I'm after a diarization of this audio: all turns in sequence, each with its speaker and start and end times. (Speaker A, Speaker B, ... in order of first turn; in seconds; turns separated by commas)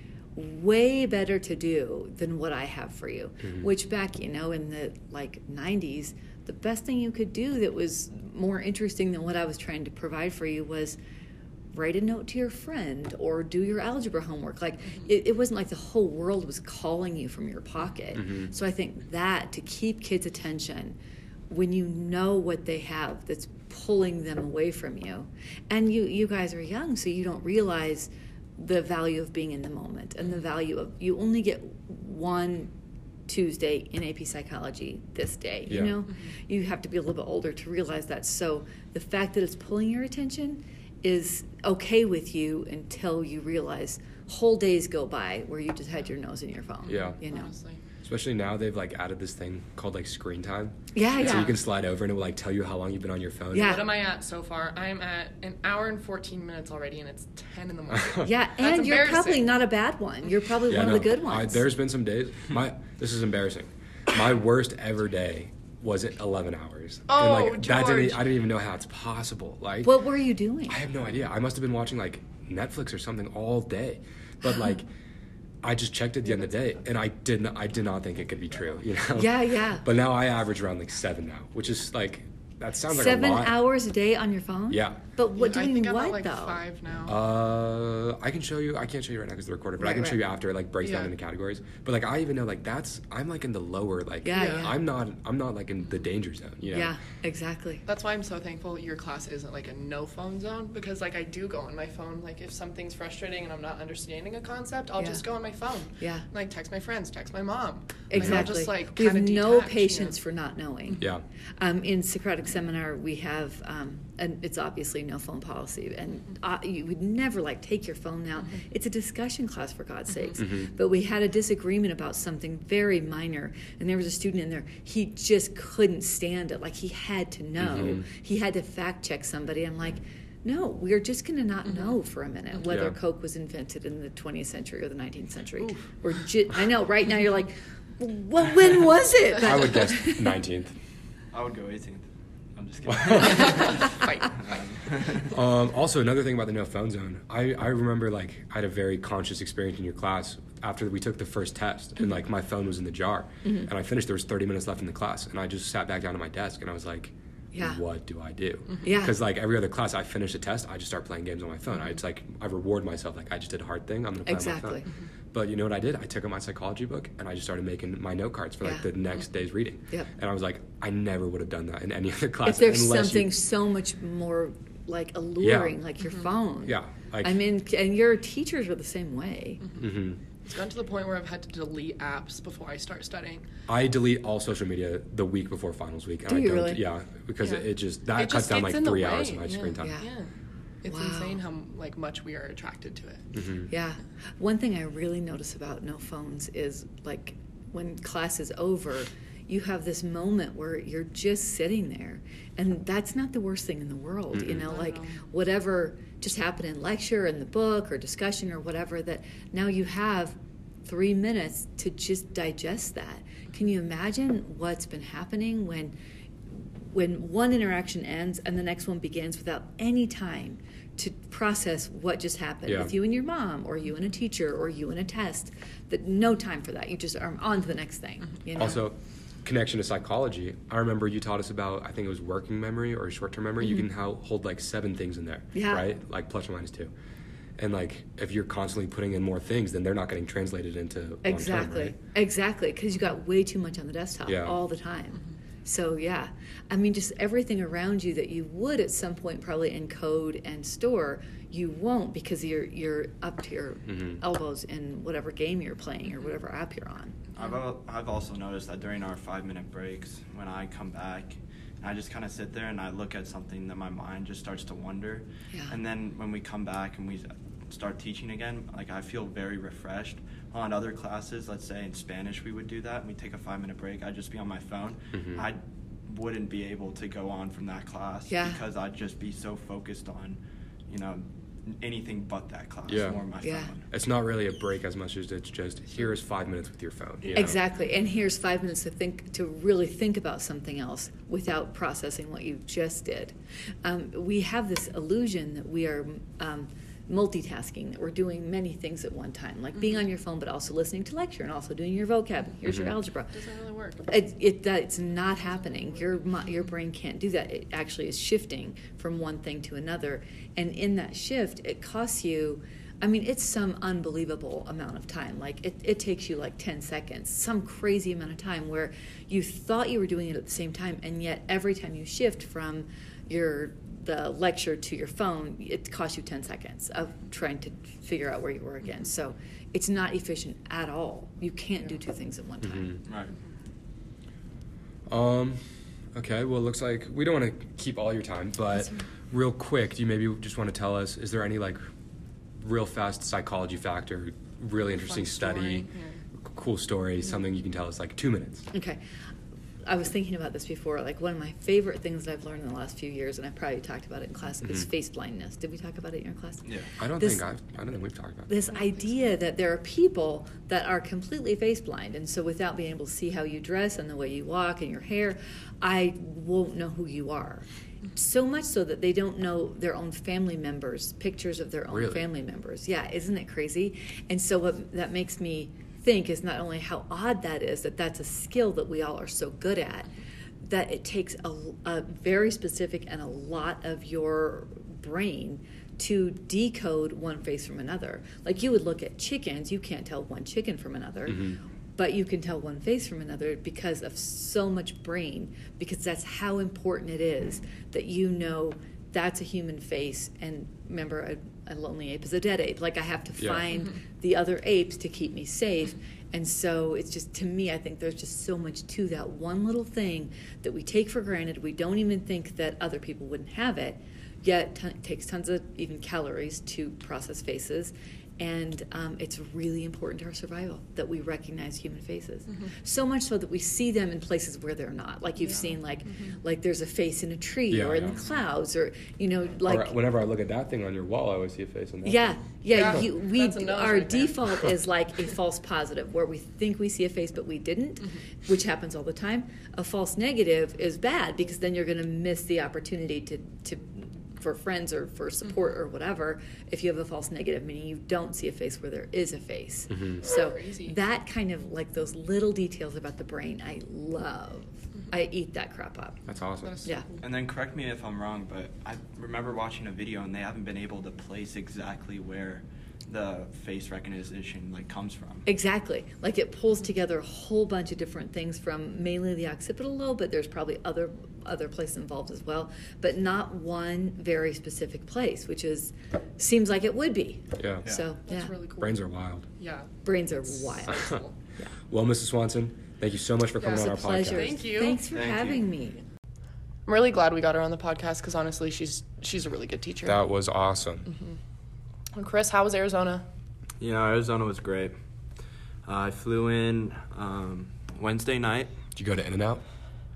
Speaker A: 0.4-11.0, Speaker A: 11.7-21.0, Speaker B: 18.2-18.5, Speaker A: 21.5-32.7, Speaker A: 33.3-47.5, Speaker B: 35.7-36.0, Speaker C: 46.9-47.8, Speaker B: 46.9-47.2, Speaker B: 48.0-53.8, Speaker A: 50.9-51.6, Speaker C: 51.2-51.5, Speaker A: 53.5-53.9, Speaker C: 53.6-59.5, Speaker B: 57.9-58.2, Speaker A: 58.2-61.7, Speaker B: 60.7-70.0, Speaker C: 67.1-68.3, Speaker A: 69.8-70.8, Speaker B: 70.7-74.9, Speaker A: 74.4-74.8, Speaker B: 75.6-83.6, Speaker A: 79.2-79.8, Speaker A: 82.9-86.6, Speaker B: 84.7-85.0, Speaker C: 85.3-87.2, Speaker B: 87.1-96.9, Speaker A: 89.8-90.2, Speaker C: 90.8-91.1, Speaker A: 94.2-94.8, Speaker C: 94.3-94.7, Speaker A: 96.7-97.8, Speaker C: 97.9-110.2, Speaker A: 105.0-105.2, Speaker A: 106.0-106.3, Speaker A: 108.1-140.4, Speaker B: 108.2-108.5, Speaker B: 127.6-128.0, Speaker B: 132.7-133.0, Speaker B: 139.4-140.7, Speaker D: 141.3-145.3, Speaker C: 143.2-144.3, Speaker B: 145.3-173.3, Speaker A: 157.5-157.8, Speaker A: 158.8-159.2, Speaker A: 164.3-164.9, Speaker A: 168.6-168.9, Speaker A: 172.4-179.7, Speaker B: 175.4-175.8, Speaker B: 176.6-177.4, Speaker B: 179.8-180.2, Speaker C: 180.4-183.4, Speaker B: 183.7-190.0, Speaker A: 186.3-186.8, Speaker C: 187.4-193.2, Speaker A: 189.8-190.1, Speaker A: 190.9-191.4, Speaker B: 193.3-193.7, Speaker A: 193.7-215.9, Speaker B: 204.3-204.7, Speaker C: 204.7-205.2, Speaker A: 216.9-228.9, Speaker B: 222.7-222.9, Speaker B: 228.6-236.9, Speaker A: 235.5-235.9, Speaker B: 237.6-242.0, Speaker A: 241.2-257.3, Speaker B: 244.3-244.6, Speaker B: 253.9-254.2, Speaker D: 257.4-283.9, Speaker B: 275.1-275.5, Speaker A: 278.3-278.6, Speaker B: 282.9-283.2, Speaker A: 283.4-283.7, Speaker B: 283.9-287.6, Speaker A: 287.4-303.3, Speaker C: 303.3-304.1, Speaker A: 304.1-333.0, Speaker B: 332.6-333.0, Speaker D: 333.1-333.3, Speaker B: 335.1-335.6, Speaker B: 336.1-341.8, Speaker B: 342.6-345.9, Speaker C: 344.9-346.2, Speaker B: 346.4-348.7, Speaker A: 348.7-349.0, Speaker A: 349.9-357.6, Speaker B: 357.0-358.6, Speaker A: 358.5-380.1, Speaker B: 371.9-372.3, Speaker A: 380.6-430.0, Speaker B: 391.3-391.6, Speaker B: 403.4-403.6, Speaker B: 427.7-428.2, Speaker B: 429.7-432.3, Speaker A: 432.0-456.2, Speaker C: 432.7-434.6, Speaker B: 449.9-450.2, Speaker C: 450.3-450.9, Speaker B: 456.3-456.8, Speaker C: 456.6-457.2, Speaker D: 457.2-465.5, Speaker A: 465.5-478.5, Speaker B: 477.6-477.9, Speaker C: 478.3-479.0, Speaker B: 478.8-479.5, Speaker C: 479.6-479.9, Speaker A: 480.0-481.0, Speaker C: 480.5-481.3, Speaker B: 481.9-484.6, Speaker C: 483.6-485.0, Speaker A: 483.7-486.0, Speaker D: 485.1-485.6, Speaker C: 486.9-490.2, Speaker B: 490.1-491.1, Speaker C: 491.1-491.4, Speaker C: 492.1-493.2, Speaker D: 493.8-494.9, Speaker D: 495.9-498.7, Speaker B: 499.0-499.6